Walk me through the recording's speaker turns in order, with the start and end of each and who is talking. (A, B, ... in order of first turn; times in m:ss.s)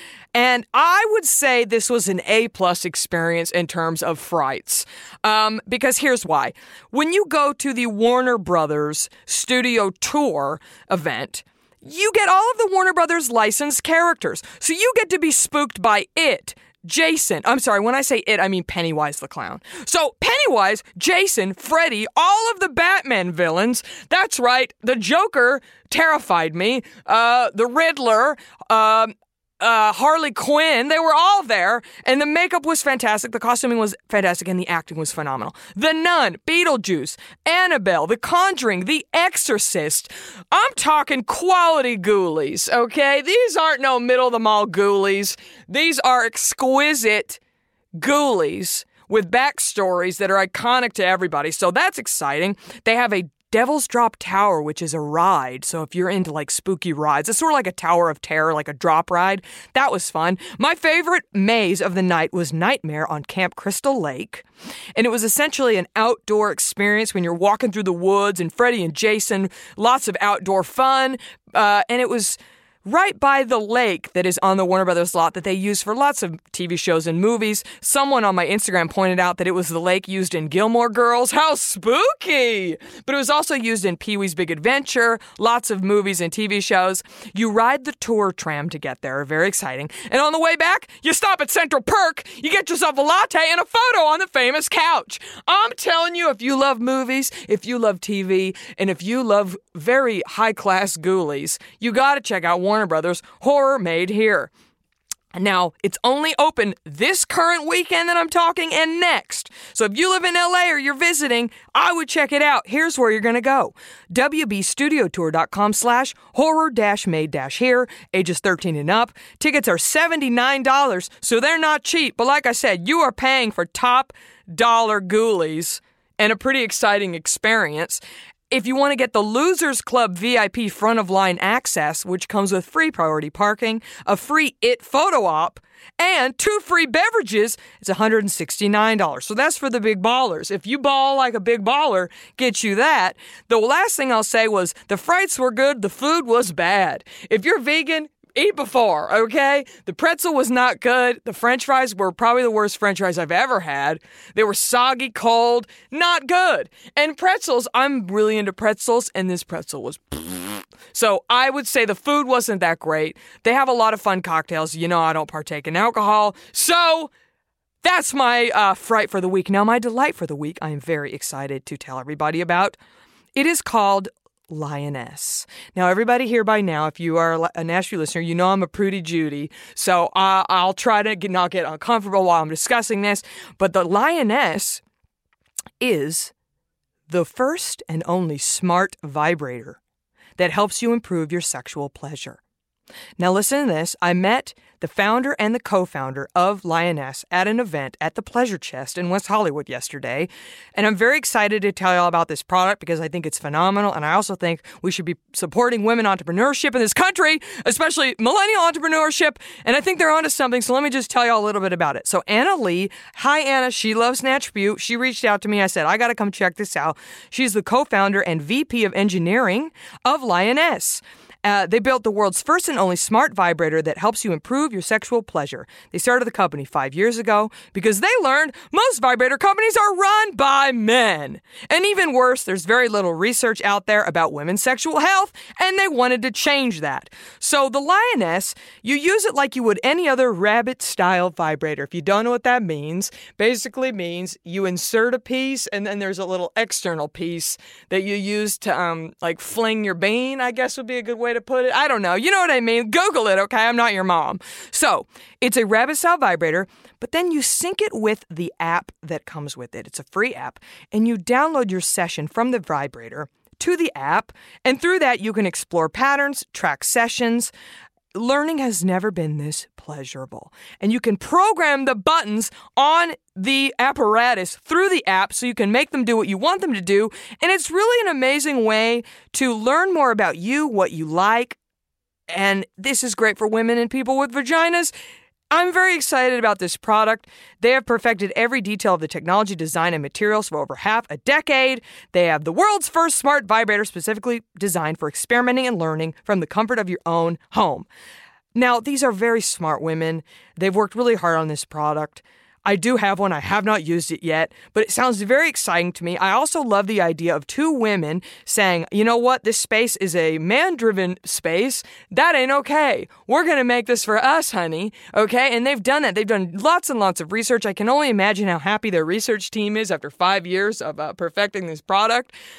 0:00.3-0:47.4 A
0:48.0-1:44.5 A
1:45.4-2:47.1 A
2:47.8-2:52.8 A
2:53.4-3:04.8 A
3:05.8-3:06.3 A
3:07.1-3:09.8 A
3:10.4-3:12.4 A
3:13.2-4:27.5 A
4:28.1-4:41.6 A
4:42.3-4:44.9 A
4:45.5-4:57.9 A
4:58.6-5:22.3 A